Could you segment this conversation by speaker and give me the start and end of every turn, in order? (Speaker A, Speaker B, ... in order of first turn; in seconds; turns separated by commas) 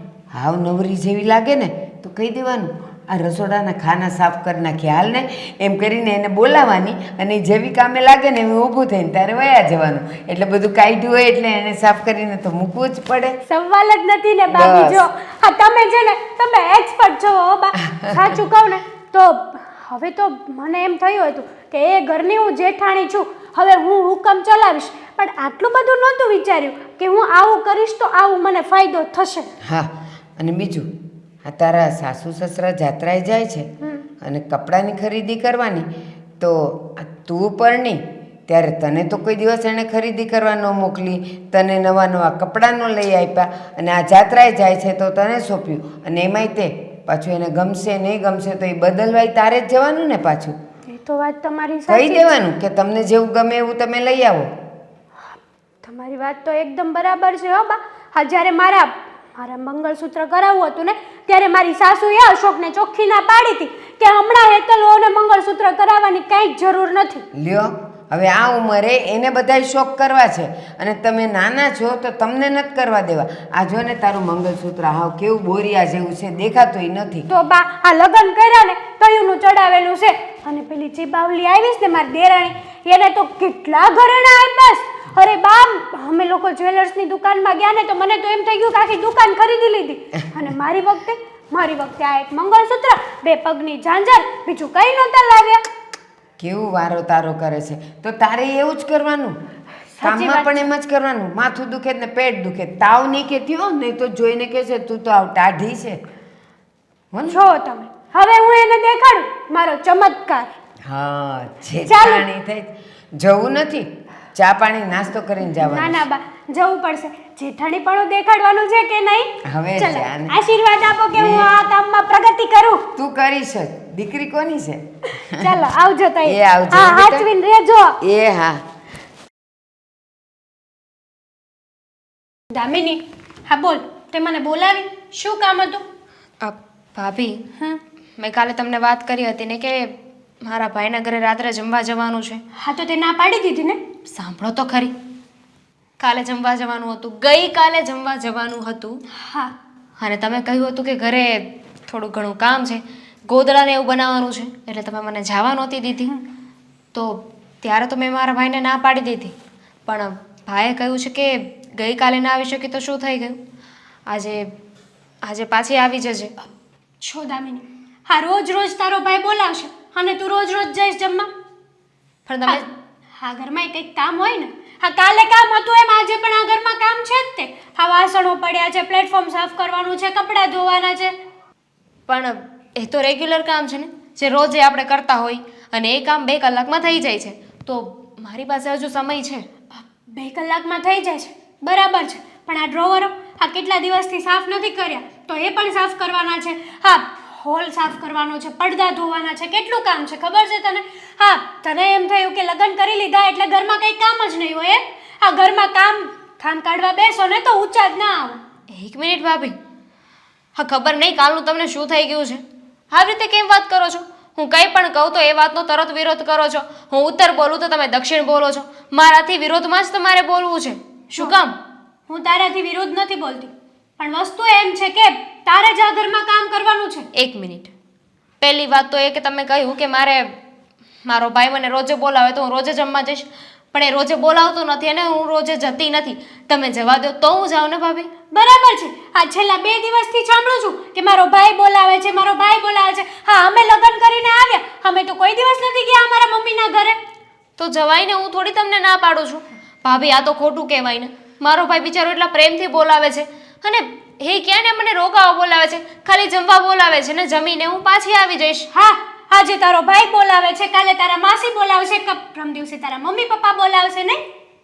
Speaker A: 0.3-13.4, Speaker B: 13.5-29.5, Speaker A: 14.5-15.0, Speaker A: 17.9-18.2, Speaker A: 29.6-30.9, Speaker A: 31.4-33.7, Speaker A: 34.2-35.9, Speaker A: 36.4-50.5, Speaker B: 50.9-52.3, Speaker A: 51.9-54.5, Speaker B: 55.2-67.2, Speaker A: 67.4-77.3, Speaker B: 77.3-95.6, Speaker A: 96.4-99.3, Speaker B: 99.9-100.6, Speaker A: 100.0-106.0, Speaker A: 107.1-107.4, Speaker B: 107.3-110.5, Speaker A: 110.8-116.1, Speaker B: 111.8-112.2, Speaker B: 115.5-122.8, Speaker A: 119.5-120.4, Speaker A: 121.1-121.5, Speaker A: 122.9-125.5, Speaker B: 125.2-128.0, Speaker A: 126.2-127.3, Speaker A: 128.0-128.6, Speaker B: 132.5-135.8, Speaker C: 136.4-137.4, Speaker C: 138.2-142.4, Speaker B: 142.6-143.8, Speaker C: 144.1-144.9, Speaker C: 146.0-149.0, Speaker B: 149.2-149.6, Speaker C: 150.0-156.1, Speaker C: 156.9-159.3, Speaker C: 159.9-163.4, Speaker C: 164.1-164.4, Speaker C: 165.3-166.3, Speaker B: 167.0-171.3, Speaker C: 172.3-172.7, Speaker B: 172.4-181.2, Speaker C: 182.1-189.4, Speaker B: 189.8-208.4, Speaker C: 208.7-209.5, Speaker C: 210.6-221.5, Speaker B: 222.1-227.1, Speaker C: 227.2-227.7, Speaker C: 228.4-230.3, Speaker C: 231.1-238.1, Speaker B: 238.3-247.0, Speaker C: 247.6-258.7, Speaker B: 258.7-264.2